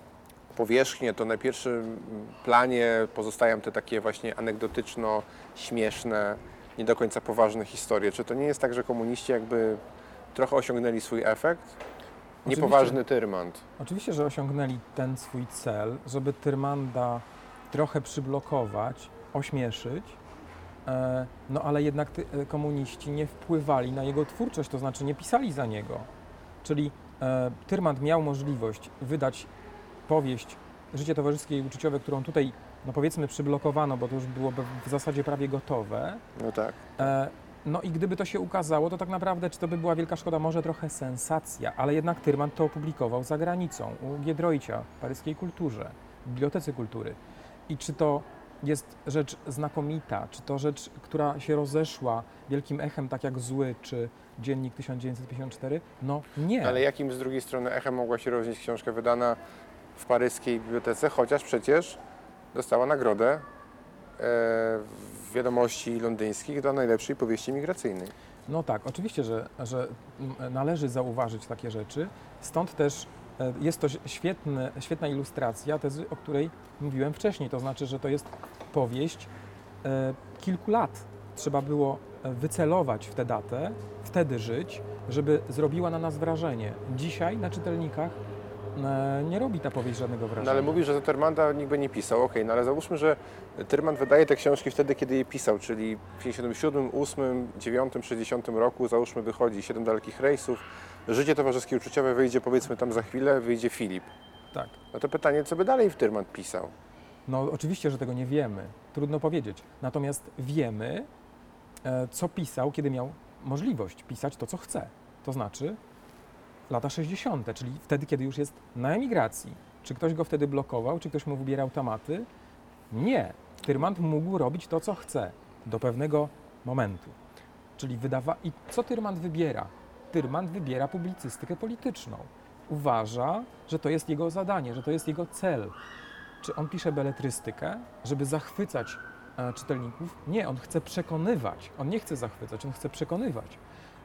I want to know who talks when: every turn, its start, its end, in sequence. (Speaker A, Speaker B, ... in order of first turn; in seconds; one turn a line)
Speaker A: 0.5-9.8
Speaker A: 10.3-11.8
Speaker B: 12.4-13.0
Speaker A: 12.4-13.6
Speaker B: 13.8-20.2
Speaker B: 20.9-26.1
Speaker B: 26.6-29.5
Speaker B: 30.1-36.2
Speaker A: 36.4-36.9
Speaker B: 37.0-56.8
Speaker A: 56.6-59.4
Speaker A: 60.0-62.0
Speaker A: 62.5-63.5
Speaker A: 64.2-68.1
Speaker B: 68.5-79.3
Speaker B: 79.8-88.2
Speaker B: 88.8-90.8
Speaker A: 90.4-104.1
Speaker A: 104.9-106.7
Speaker B: 107.3-111.1
Speaker B: 111.8-115.8
Speaker B: 116.7-122.3
Speaker B: 122.9-127.2
Speaker B: 127.8-135.8
Speaker B: 136.4-143.6